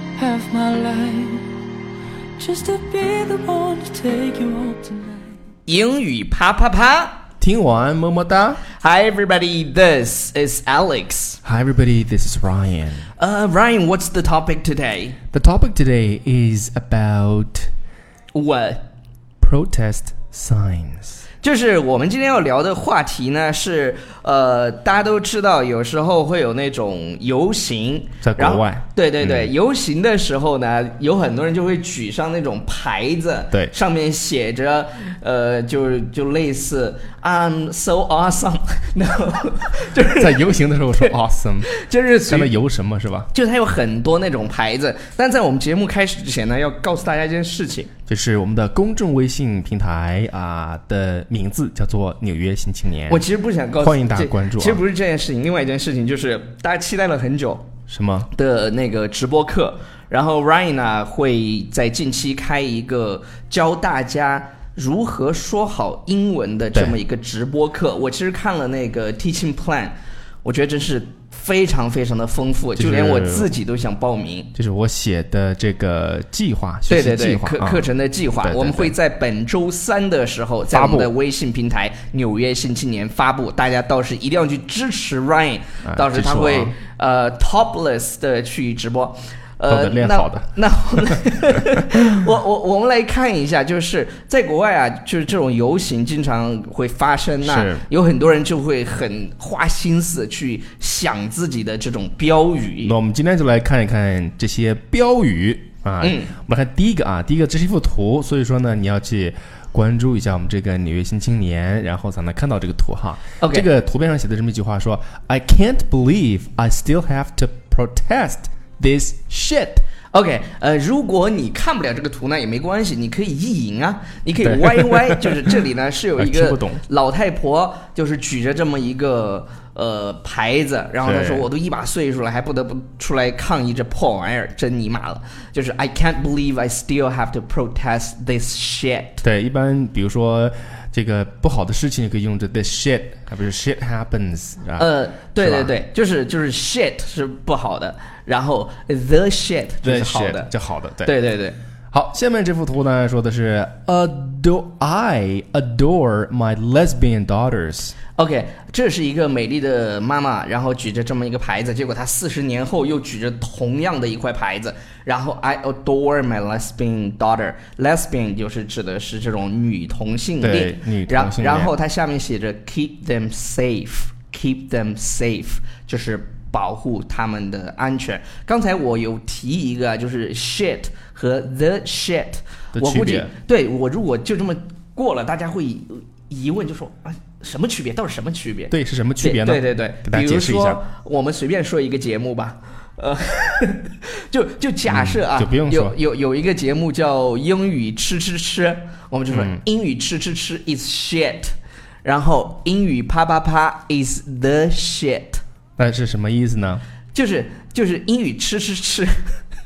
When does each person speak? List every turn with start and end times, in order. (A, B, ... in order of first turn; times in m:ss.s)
0:00.2-0:01.5 A
0:02.4-0:05.4 A
0:05.7-0:07.2 B
0:07.4-0:08.6 C
0:08.8-0:11.4 B
0:11.4-0:13.1 C
0:13.2-0:15.2 B
0:15.3-0:17.7 C
0:18.3-0:18.8 B
0:19.4-0:21.2 C
0:21.4-0:41.1 B
0:28.2-0:29.5 C
0:40.2-0:41.7 C
0:41.7-0:42.5 B
0:42.3-0:43.3 C
0:43.3-0:47.9 B
0:48.1-0:53.2 C
0:53.1-0:57.7 B
0:53.8-0:54.8 C
0:57.9-0:58.3 C
0:58.3-1:14.5 B
1:12.8-1:13.5 C
1:14.6-1:17.9 C
1:16.9-1:43.0 B
1:18.4-1:19.0 C
1:20.7-1:21.1 C
1:25.8-1:26.7 C
1:29.7-1:30.6 C
1:37.4-1:37.8 C
1:42.8-1:59.8 C
1:46.0-1:46.3 B
1:53.4-1:53.7 B
2:00.1-2:19.2 B
2:04.4-2:05.5 C
2:06.2-2:06.8 C
2:11.0-2:11.5 C
2:19.2-2:25.7 C
2:24.8-2:30.5 B
2:29.8-2:31.1 C
2:31.0-2:31.6 B
2:31.9-2:37.9 C
2:38.1-3:21.5 B
2:50.4-2:51.7 C
3:02.7-3:03.3 C
3:08.7-3:10.8 C
3:14.8-3:16.0 C
3:19.3-3:19.6 C
3:22.0-3:25.4 B
3:25.8-3:26.8 C
3:27.1-3:29.4 B